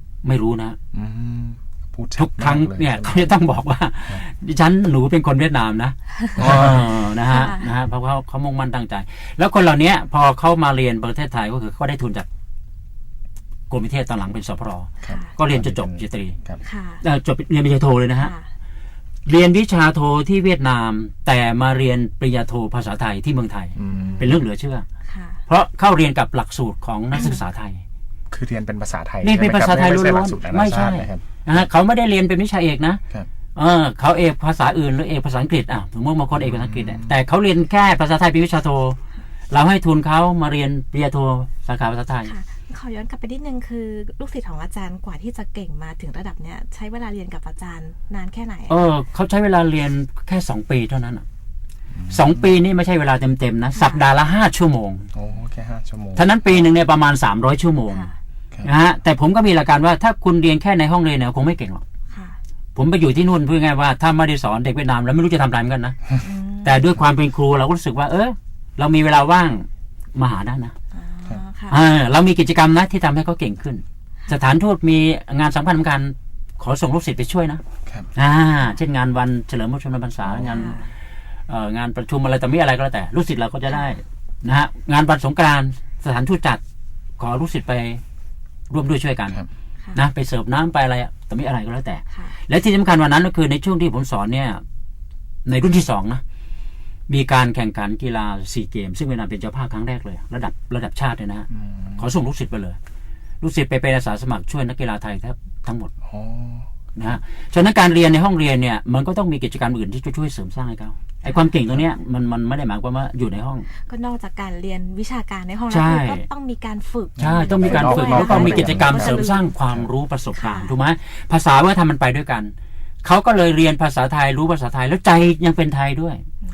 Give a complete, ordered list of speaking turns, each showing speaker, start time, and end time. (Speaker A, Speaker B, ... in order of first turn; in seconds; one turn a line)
Speaker A: 0.2-0.8
Speaker B: 0.9-3.3
Speaker A: 2.1-12.3
Speaker B: 6.3-7.0
Speaker C: 7.3-7.7
Speaker A: 13.7-16.4
Speaker C: 15.0-15.3
Speaker B: 15.0-16.6
Speaker C: 16.6-17.0
Speaker A: 17.0-18.3
Speaker C: 18.2-18.5
Speaker A: 19.2-24.9
Speaker B: 23.7-24.3
Speaker C: 23.9-24.2
Speaker C: 25.1-25.4
Speaker A: 25.5-27.8
Speaker C: 27.1-27.4
Speaker B: 28.3-31.6
Speaker A: 29.2-33.0
Speaker A: 33.5-39.0
Speaker B: 36.3-37.1
Speaker A: 39.5-42.3
Speaker C: 42.2-48.8
Speaker A: 48.7-51.2
Speaker B: 51.9-52.5
Speaker A: 52.1-55.1
Speaker C: 53.7-54.0
Speaker B: 55.1-56.7
Speaker A: 56.1-58.1
Speaker C: 57.9-58.1
Speaker A: 58.6-61.8
Speaker C: 62.1-62.4
Speaker A: 62.7-66.0
Speaker C: 66.2-66.9
Speaker A: 66.6-70.7
Speaker C: 70.9-71.8
Speaker A: 71.7-77.6
Speaker A: 78.1-80.9
Speaker B: 80.2-80.7
Speaker C: 80.5-80.8
Speaker A: 81.5-86.6
Speaker A: 87.2-88.0
Speaker A: 88.7-89.4
Speaker A: 89.9-94.6
Speaker C: 92.1-92.4
Speaker A: 95.4-96.2
Speaker A: 97.1-102.8
Speaker B: 101.5-102.0
Speaker A: 103.4-105.9
Speaker B: 106.0-107.2
Speaker A: 107.0-113.7
Speaker C: 111.2-111.5
Speaker C: 113.7-119.5
Speaker A: 115.7-116.2
Speaker B: 117.2-119.9
Speaker A: 117.2-126.2
Speaker C: 120.3-120.7